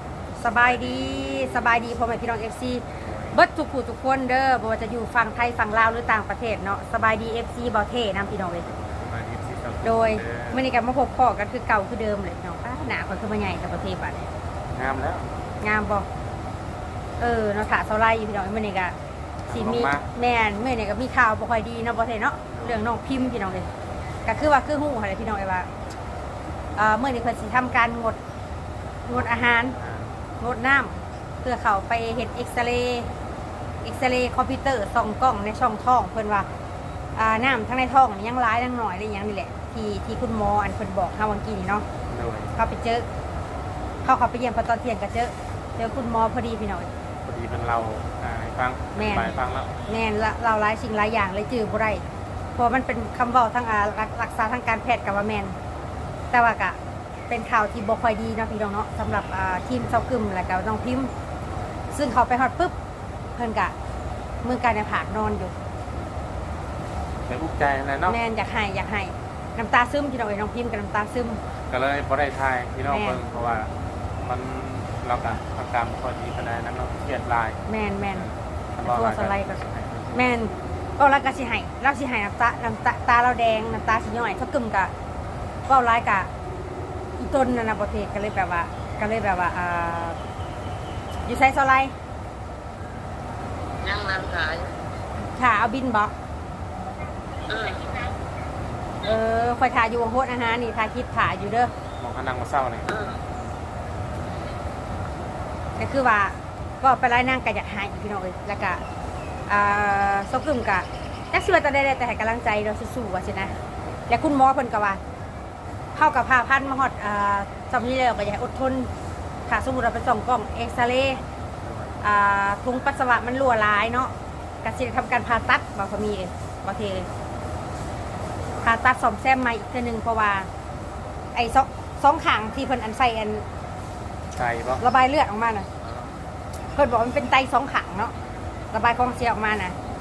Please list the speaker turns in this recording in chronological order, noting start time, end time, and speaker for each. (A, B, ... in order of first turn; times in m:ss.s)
0:00.4-0:08.7 A
0:00.6-0:01.8 B
0:02.9-0:03.4 B
0:08.6-0:10.7 B
0:09.8-0:14.3 A
0:14.7-0:15.3 B
0:15.6-0:16.1 A
0:16.2-0:16.5 B
0:17.2-0:19.0 A
0:19.5-0:20.1 B
0:19.5-0:23.7 A
0:22.5-0:22.8 B
0:24.3-0:25.7 A
0:26.8-0:28.2 A
0:29.1-0:29.8 A
0:29.2-0:30.1 B
0:30.4-0:33.1 A
0:33.8-0:36.5 A
0:37.2-0:41.9 A
0:42.1-0:42.5 B
0:42.6-0:43.1 A
0:44.0-0:46.9 A
0:47.2-0:49.7 B
0:49.0-0:49.3 A
0:49.9-0:52.0 A
0:52.6-0:55.6 A
0:56.3-0:56.8 A
0:57.3-1:01.1 A
1:01.5-1:01.8 B
1:01.9-1:02.8 A
1:03.4-1:03.7 A
1:04.4-1:05.5 A
1:07.3-1:08.2 B
1:08.1-1:11.4 A
1:11.7-1:17.6 B
1:12.9-1:13.2 A
1:17.7-1:18.3 A
1:18.1-1:20.3 B
1:18.8-1:19.6 A
1:20.1-1:24.9 A
1:25.7-1:26.3 A
1:27.2-1:30.2 A
1:31.3-1:31.9 A
1:33.8-1:34.7 C
1:35.3-1:36.1 A
1:37.5-1:38.1 C
1:39.0-1:41.7 A
1:42.0-1:42.9 B
1:42.9-1:43.2 C
1:45.8-1:48.8 A
1:49.5-1:55.0 A
1:56.0-1:58.9 A
1:59.5-2:01.2 A
2:01.6-2:02.0 B
2:02.0-2:04.1 A
2:04.6-2:07.1 A
2:08.6-2:10.5 A
2:11.4-2:13.5 A
2:14.3-2:14.8 B
2:14.8-2:15.7 A
2:15.8-2:16.2 B
2:16.8-2:18.1 A
2:18.7-2:19.8 A